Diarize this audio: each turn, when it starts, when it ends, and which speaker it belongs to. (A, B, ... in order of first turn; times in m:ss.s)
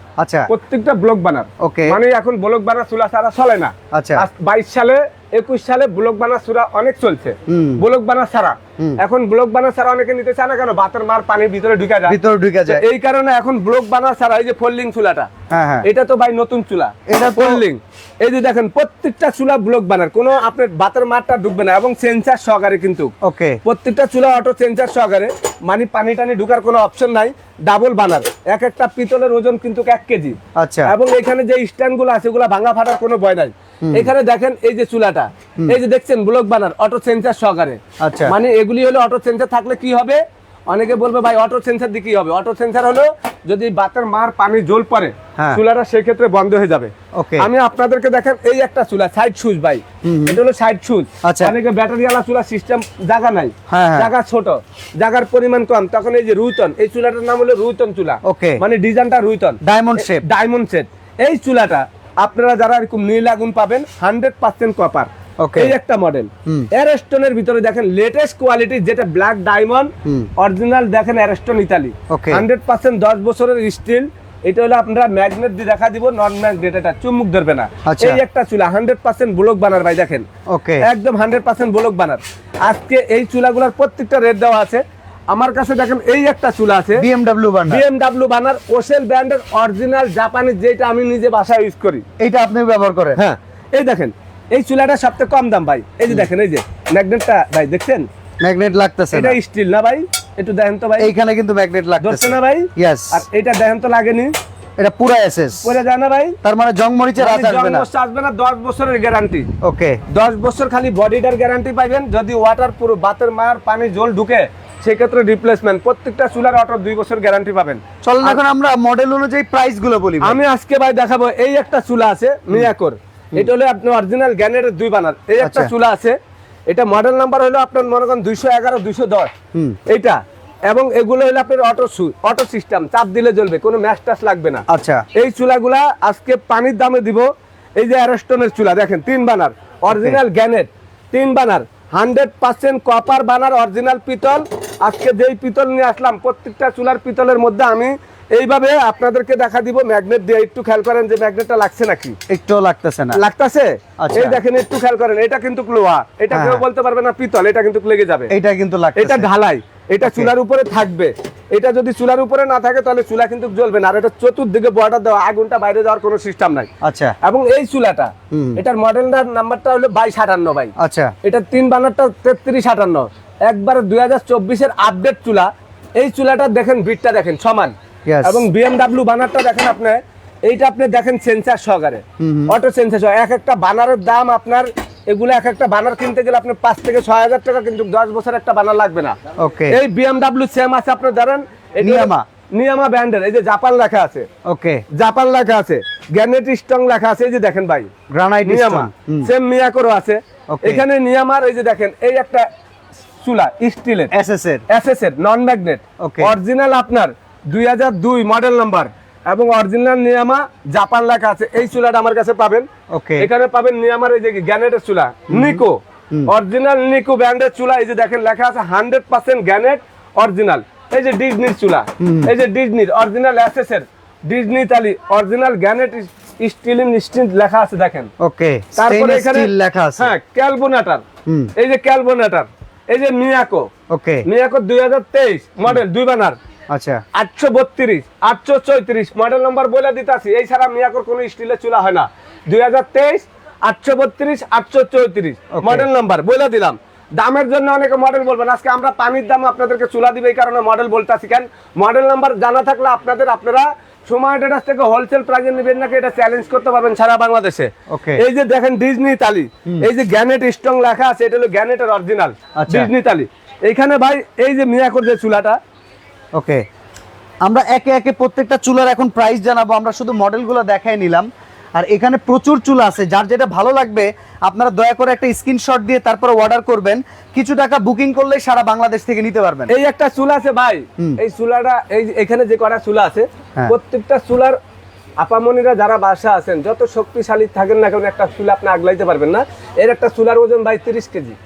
0:00.2-0:00.5 A
0:00.5-0:15.3 B
0:01.6-0:02.0 A
0:03.9-0:04.3 A
0:07.5-0:07.8 A
0:12.1-0:12.8 A
0:15.5-0:15.9 A
0:15.8-0:23.1 B
0:17.1-0:17.6 A
0:23.2-0:23.6 A
0:23.6-1:20.2 B
0:30.5-0:30.9 A
0:33.8-0:34.1 A
0:38.0-0:38.3 A
0:47.2-0:47.5 A
0:50.0-0:50.4 A
0:51.2-0:51.5 A
0:53.7-0:54.1 A
0:58.2-0:58.6 A
0:59.6-1:00.2 A
1:05.4-1:05.8 A
1:10.0-1:10.3 A
1:12.1-1:12.4 A
1:17.8-1:18.2 A
1:20.5-1:20.9 A
1:20.8-1:27.0 B
1:27.0-1:27.8 A
1:27.7-1:32.0 B
1:32.2-1:33.2 A
1:33.2-1:38.1 B
1:38.4-1:39.4 A
1:39.1-1:41.1 B
1:41.0-1:43.2 A
1:42.0-1:44.3 B
1:44.8-1:45.8 A
1:45.6-1:46.4 B
1:46.4-1:47.9 A
1:47.2-1:49.5 B
1:49.6-1:50.0 A
1:50.1-1:58.4 B
1:58.0-2:00.4 A
2:00.2-2:06.2 B
2:05.4-2:05.7 A
2:06.7-2:09.3 B
2:09.9-2:32.2 B
2:14.7-2:15.0 A
2:19.9-2:20.2 A
2:32.3-2:33.2 A
2:33.1-2:38.3 B
2:34.0-2:34.4 A
2:36.3-2:36.6 A
2:38.3-2:39.3 A
2:39.0-2:46.7 B
2:40.0-2:40.3 A
2:46.8-2:47.1 A
2:47.2-3:09.2 B
2:48.3-2:48.6 A
2:50.8-2:51.1 A
2:58.1-2:58.4 A
3:02.2-3:02.6 A
3:09.4-3:09.8 A
3:09.7-3:14.3 B
3:11.8-3:12.2 A
3:14.4-3:14.8 A
3:14.9-3:17.9 B
3:18.1-3:19.3 A
3:18.4-3:22.4 B
3:20.5-3:20.8 A
3:23.2-3:24.1 B
3:24.1-3:24.6 A
3:24.7-3:32.7 B
3:26.0-3:26.4 A
3:32.9-3:33.3 A
3:33.2-3:48.1 B
3:35.3-3:36.3 A
3:42.0-3:42.3 A
3:48.2-3:50.1 A
3:48.8-3:51.0 B
3:51.2-3:51.5 A
3:51.6-3:53.7 B
3:53.9-3:54.2 A
3:54.2-3:56.4 B
3:56.7-3:57.0 A
3:57.1-4:25.6 B
4:05.5-4:05.9 A
4:17.9-4:18.2 A
4:22.6-4:22.9 A
4:26.3-4:26.6 A
4:27.4-4:39.7 A
4:39.7-4:44.6 B
4:45.2-4:51.4 B